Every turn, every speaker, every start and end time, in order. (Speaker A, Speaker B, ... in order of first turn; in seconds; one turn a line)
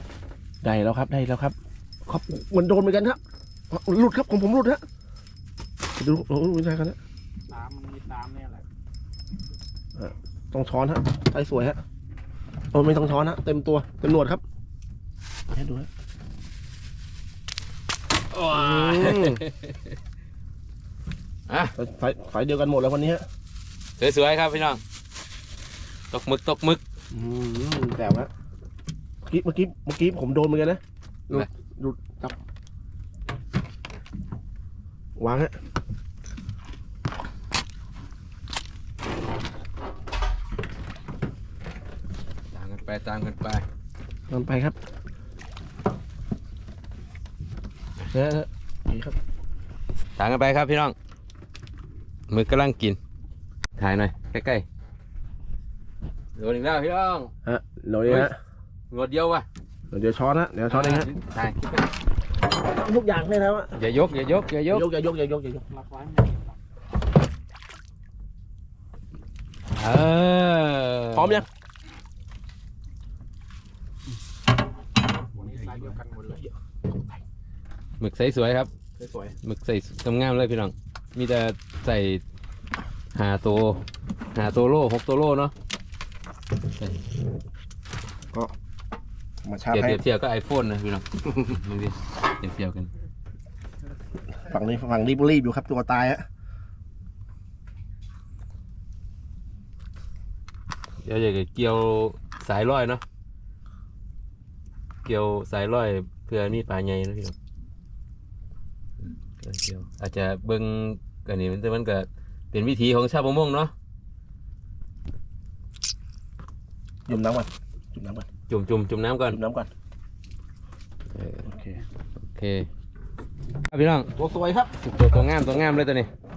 Speaker A: 0.6-3.2
Speaker A: 3.7-4.8
Speaker A: 6.0-7.0
Speaker B: 7.5-8.6
Speaker A: 9.9-11.8
Speaker A: 12.7-14.4
Speaker A: 15.5-15.9
Speaker C: 18.3-19.6
Speaker A: 18.5-19.4
Speaker C: 21.5-21.7
Speaker A: 21.8-23.2
Speaker C: 24.0-24.8
Speaker C: 26.1-26.8
Speaker A: 27.1-28.3
Speaker A: 29.2-32.4
Speaker A: 35.2-35.5
Speaker C: 42.5-43.6
Speaker A: 44.3-44.8
Speaker A: 48.1-49.1
Speaker C: 50.2-50.9
Speaker C: 52.3-53.0
Speaker C: 53.8-54.6
Speaker C: 56.3-57.3
Speaker A: 57.4-58.3
Speaker C: 58.0-58.3
Speaker C: 58.9-59.5
Speaker A: 59.9-61.1
Speaker C: 60.7-61.6
Speaker A: 62.6-63.8
Speaker C: 63.7-64.9
Speaker A: 64.7-65.6
Speaker B: 65.7-66.6
Speaker C: 69.8-71.4
Speaker A: 71.1-71.4
Speaker B: 75.3-76.4
Speaker C: 78.0-78.7
Speaker A: 79.0-79.3
Speaker C: 79.4-82.2
Speaker C: 83.1-85.5
Speaker C: 86.7-87.0
Speaker A: 89.4-90.0
Speaker C: 89.7-92.9
Speaker A: 94.4-96.2
Speaker C: 101.0-103.0
Speaker C: 105.0-107.3
Speaker C: 109.0-113.7
Speaker A: 117.1-118.3
Speaker C: 118.5-119.4
Speaker A: 119.3-119.7
Speaker C: 121.1-121.4
Speaker A: 121.4-121.8
Speaker C: 122.2-122.7
Speaker C: 123.7-124.1
Speaker A: 124.1-124.7
Speaker C: 124.8-126.1